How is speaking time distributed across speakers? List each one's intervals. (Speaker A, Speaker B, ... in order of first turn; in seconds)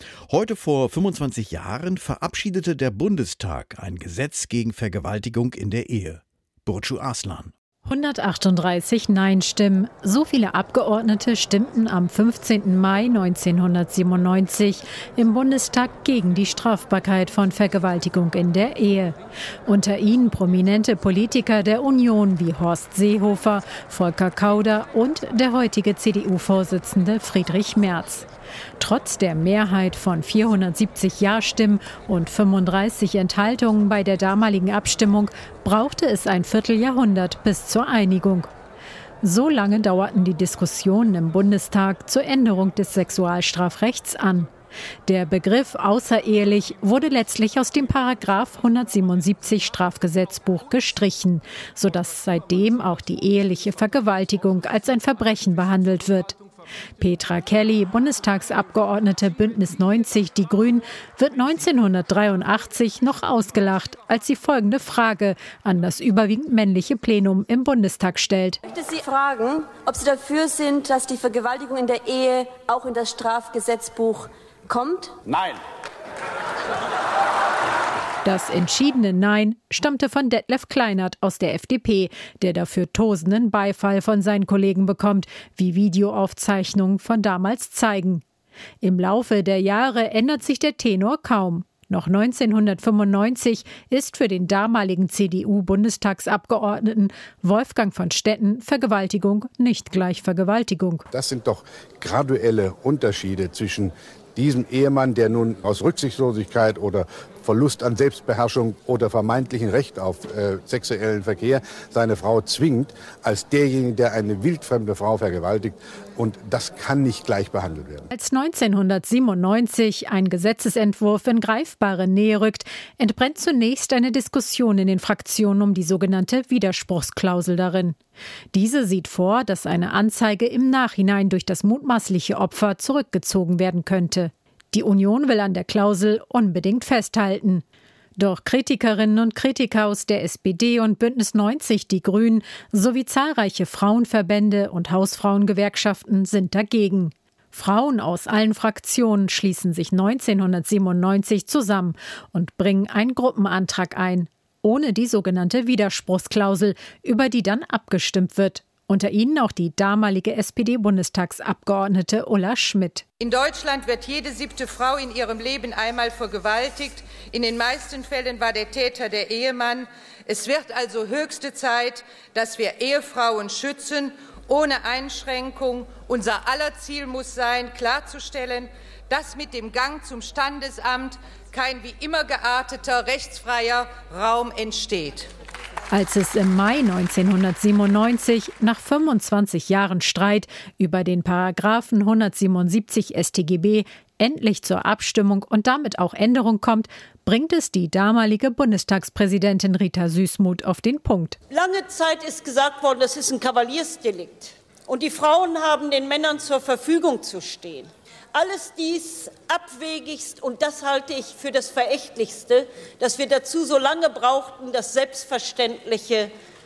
Speaker A: 0.3-7.5
Speaker B: 7.8-28.2, 28.8-38.5, 39.2-44.5, 45.0-56.4, 57.0-68.6, 78.2-88.2, 88.8-101.0, 118.1-128.0, 128.5-137.6, 138.2-163.0, 185.9-201.4
Speaker C: 68.7-75.1
Speaker D: 101.1-118.1
Speaker E: 163.2-185.3
Speaker F: 201.5-216.3